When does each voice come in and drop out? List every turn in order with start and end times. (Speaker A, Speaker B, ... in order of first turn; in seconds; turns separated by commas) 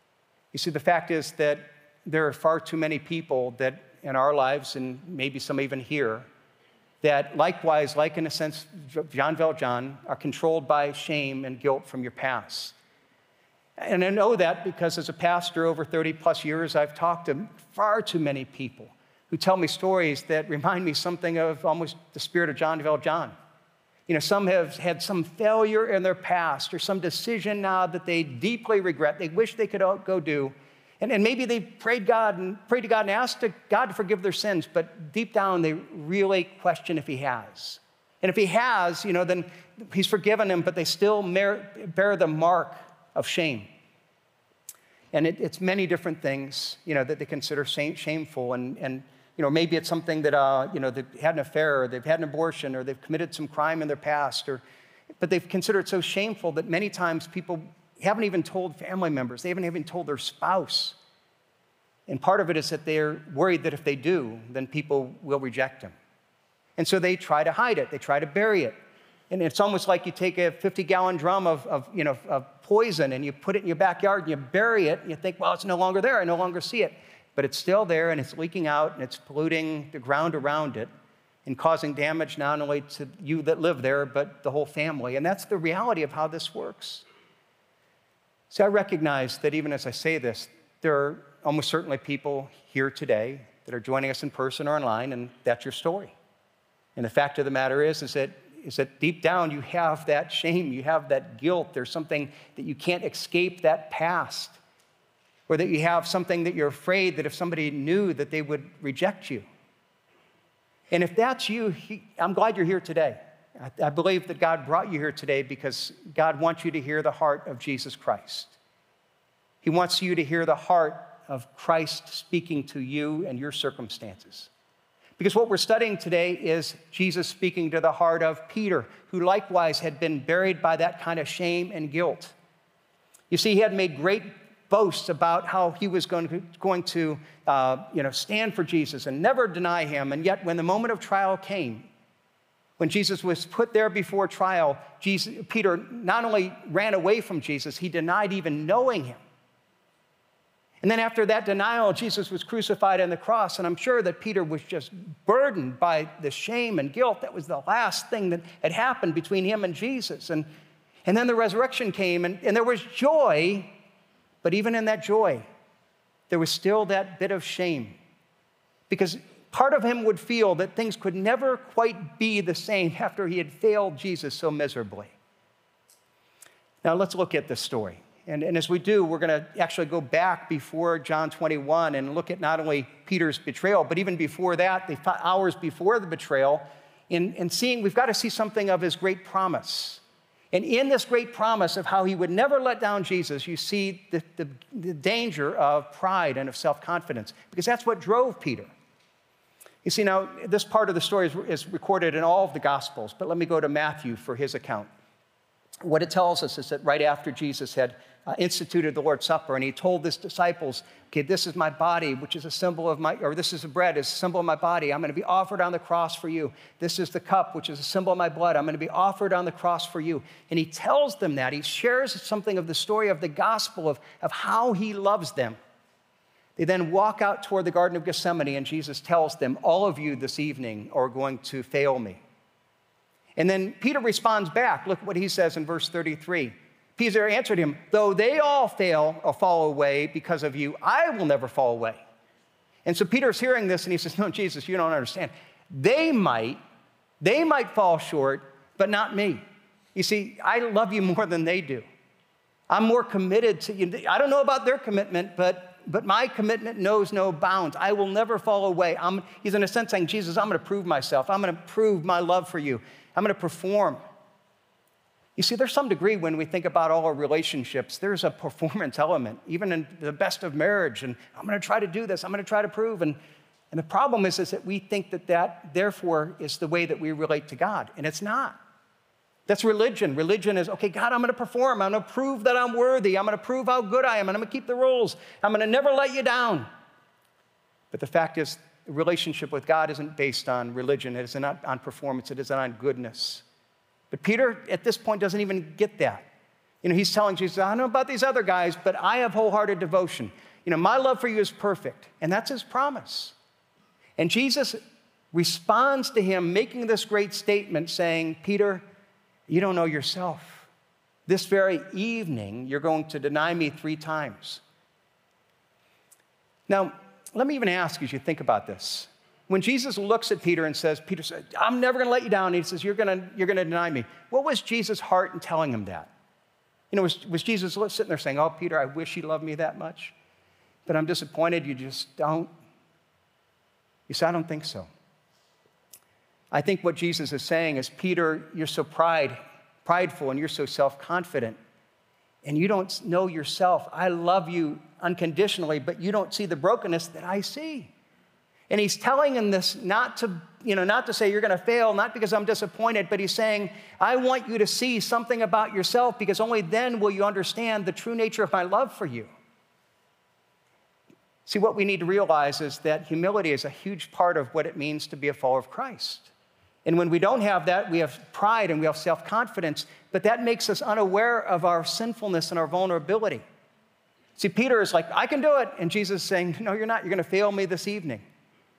Speaker A: 0.5-6.3, Speaker A: 7.0-12.8, Speaker A: 13.8-23.3, Speaker A: 24.1-43.7, Speaker A: 45.1-54.6, Speaker A: 55.2-61.0, Speaker A: 62.1-65.9, Speaker A: 66.8-68.8, Speaker A: 69.3-80.9, Speaker A: 81.4-87.0, Speaker A: 88.5-96.1, Speaker A: 97.0-104.6, Speaker A: 105.5-109.4, Speaker A: 110.9-118.6, Speaker A: 119.6-124.5, Speaker A: 125.2-132.3, Speaker A: 133.3-141.8, Speaker A: 142.8-149.2, Speaker A: 150.8-160.4, Speaker A: 161.1-163.7, Speaker A: 164.4-165.4, Speaker A: 166.3-167.9, Speaker A: 168.9-175.2, Speaker A: 176.8-190.0, Speaker A: 190.5-198.7, Speaker A: 199.8-204.9, Speaker A: 205.8-225.6, Speaker A: 226.6-232.2, Speaker A: 233.4-242.0, Speaker A: 242.8-246.6, Speaker A: 247.2-249.4, Speaker A: 249.9-251.8, Speaker A: 252.7-264.0, Speaker A: 265.4-273.2, Speaker A: 273.7-278.6, Speaker A: 279.5-286.7, Speaker A: 287.9-293.4, Speaker A: 294.1-296.2, Speaker A: 296.8-303.3, Speaker A: 304.2-304.8, Speaker A: 305.3-308.8, Speaker A: 309.5-310.7, Speaker A: 311.3-314.6, Speaker A: 316.7-326.1, Speaker A: 326.9-330.1, Speaker A: 330.9-332.5, Speaker A: 334.1-334.9, Speaker A: 336.5-341.6, Speaker A: 342.4-347.9, Speaker A: 348.7-359.3, Speaker A: 361.4-366.3, Speaker A: 366.8-373.4, Speaker A: 374.4-378.2